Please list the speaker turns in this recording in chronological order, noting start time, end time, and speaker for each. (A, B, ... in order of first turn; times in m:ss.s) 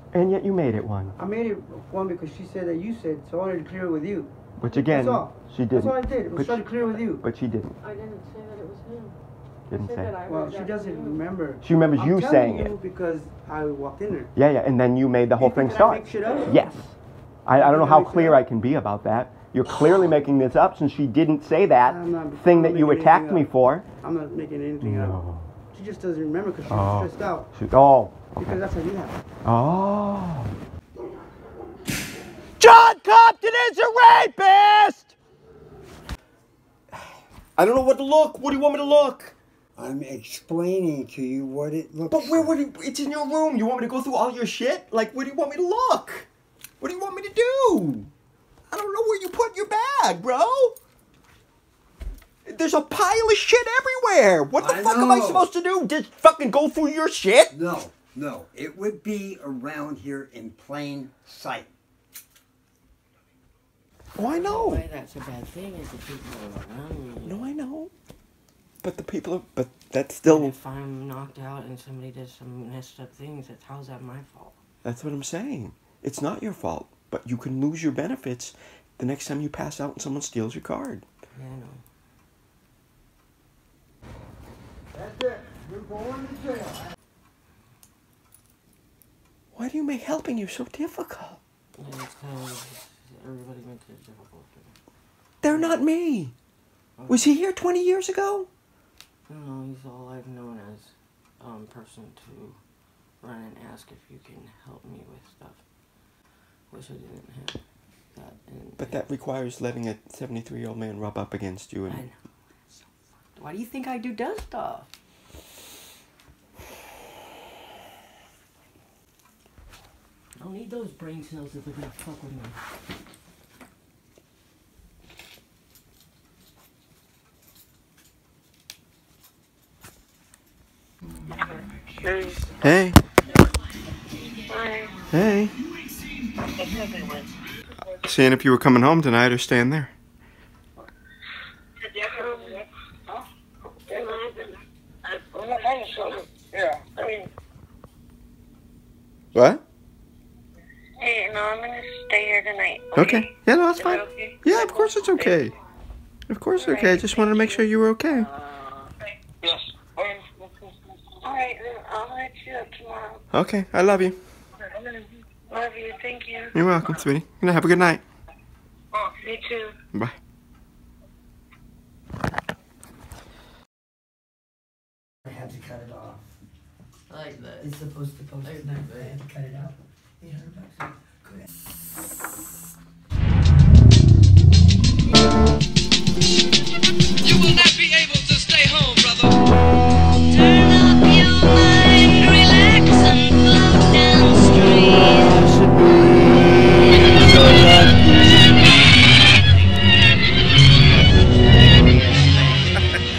0:00.1-0:01.2 A
0:01.2-0:07.2 B
0:04.6-0:07.7 A
0:07.8-0:09.2 C
0:09.7-0:10.1 A
0:09.7-0:11.2 C
0:10.3-0:14.3 B
0:11.6-0:12.7 A
0:14.4-0:16.9 A
0:15.4-0:16.7 B
0:17.5-0:23.8 A
0:17.5-0:18.4 B
0:21.8-0:23.5 B
0:24.0-0:25.2 B
0:24.8-0:25.5 A
0:25.7-0:27.5 B
0:26.7-0:28.6 A
0:28.4-0:29.2 B
0:29.4-0:30.5 A
0:32.6-0:35.2 A
0:37.6-0:39.4 A
0:39.8-0:42.5 D
0:42.1-0:46.3 A
0:46.8-0:48.1 A
0:48.7-0:50.8 A
0:52.4-0:57.5 A
0:54.6-0:55.5 D
0:57.5-1:01.7 D
1:04.2-1:04.8 A
1:04.3-1:07.4 C
1:07.2-1:07.9 A
1:08.8-1:10.6 A
1:10.2-1:14.6 C
1:14.8-1:21.0 A
1:21.3-1:21.8 C
1:29.5-1:31.4 A
1:31.8-1:34.7 C
1:35.4-1:36.3 A
1:35.4-1:35.8 C
1:37.0-1:37.3 C
1:37.1-1:38.5 A
1:39.3-1:42.6 C
1:43.2-1:45.6 C
1:46.7-1:47.6 C
1:48.1-1:49.0 C
1:48.8-1:52.0 A
1:51.9-1:52.2 C
1:53.4-1:54.9 C
2:00.4-2:02.6 C
2:11.3-2:12.5 E
2:12.6-2:13.0 A
2:14.5-2:15.1 E
2:15.1-2:15.6 A
2:16.6-2:17.3 E
2:18.0-2:19.9 A
2:21.8-2:23.2 E
2:23.9-2:27.3 E
2:29.3-2:29.6 A
2:31.0-2:35.6 E
2:33.0-2:35.6 A
2:36.3-2:38.3 A
2:36.5-2:43.2 E
2:43.3-2:44.2 A
2:44.6-2:47.1 E
2:46.5-2:48.0 A
2:48.9-2:49.8 E
2:49.9-2:50.2 A
2:55.2-2:56.2 F
2:57.1-2:57.7 C
2:57.6-3:01.5 F
2:58.4-2:59.2 C
3:14.4-3:15.8 A
3:17.2-3:18.4 A
3:22.2-3:23.0 A